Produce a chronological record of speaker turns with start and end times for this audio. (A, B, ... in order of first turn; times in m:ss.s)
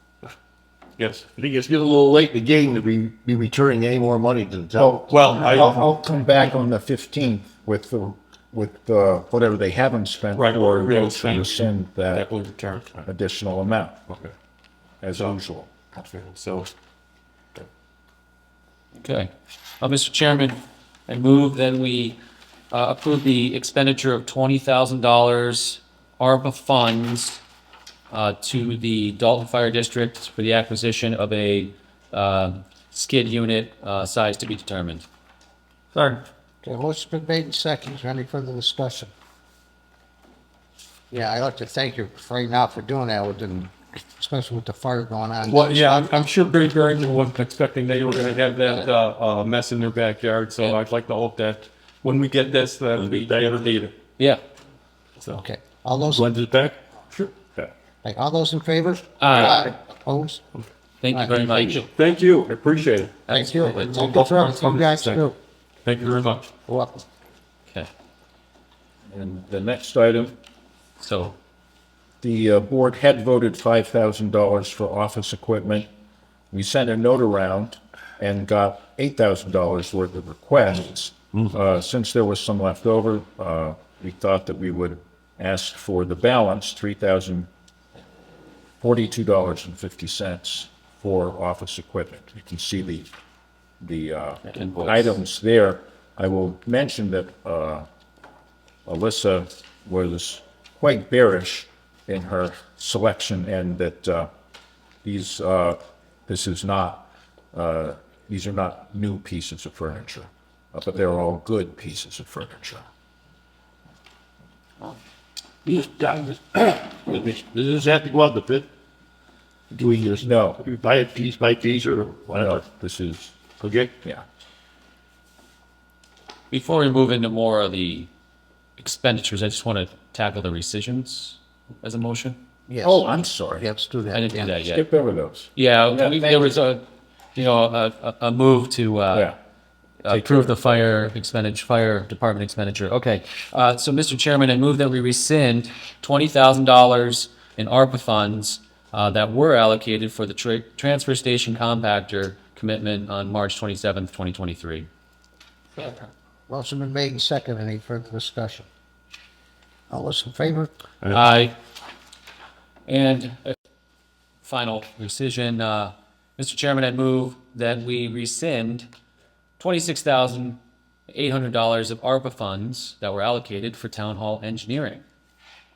0:01.0-0:01.2 A
0:01.3-0:05.0 B
0:04.8-0:12.3 C
0:05.1-0:05.9 A
0:10.3-0:13.0 A
0:13.0-0:14.0 C
0:15.0-0:15.7 C
0:15.9-0:16.7 A
0:18.9-0:22.2 D
0:22.7-0:27.4 D
0:28.1-0:35.0 D
0:36.6-0:39.1 E
0:41.1-0:46.1 E
0:45.4-0:53.9 A
0:53.0-0:53.5 B
0:55.3-0:56.2 E
0:56.1-0:56.8 B
0:58.0-1:00.4 E
0:59.2-0:59.6 D
1:01.0-1:01.8 D
1:01.1-1:01.9 E
1:01.9-1:03.1 A
1:03.3-1:04.1 D
1:03.3-1:05.4 E
1:03.9-1:05.3 A
1:05.8-1:06.5 A
1:06.7-1:07.0 E
1:09.1-1:10.4 C
1:11.0-1:11.4 D
1:12.2-1:15.9 C
1:16.5-1:27.5 C
1:28.8-1:33.1 C
1:33.8-1:37.9 C
1:34.4-1:35.1 D
1:38.8-1:44.3 C
1:45.0-1:52.8 C
1:55.6-1:58.6 B
1:59.7-2:02.6 B
2:00.2-2:00.6 C
2:02.3-2:03.4 C
2:03.6-2:03.9 B
2:06.5-2:08.1 D
2:08.8-2:12.4 D
2:12.7-2:14.5 E
2:12.8-2:13.7 C
2:14.1-2:14.8 D
2:14.5-2:16.6 C
2:15.5-2:16.8 D
2:17.3-2:19.3 D
2:19.1-2:19.4 C
2:20.0-2:34.9 D
2:20.1-2:20.8 C
2:36.5-2:38.7 E
2:39.9-2:40.7 E
2:41.1-2:41.5 D
2:42.9-2:43.5 D
2:44.4-2:48.9 D
2:49.6-2:55.0 D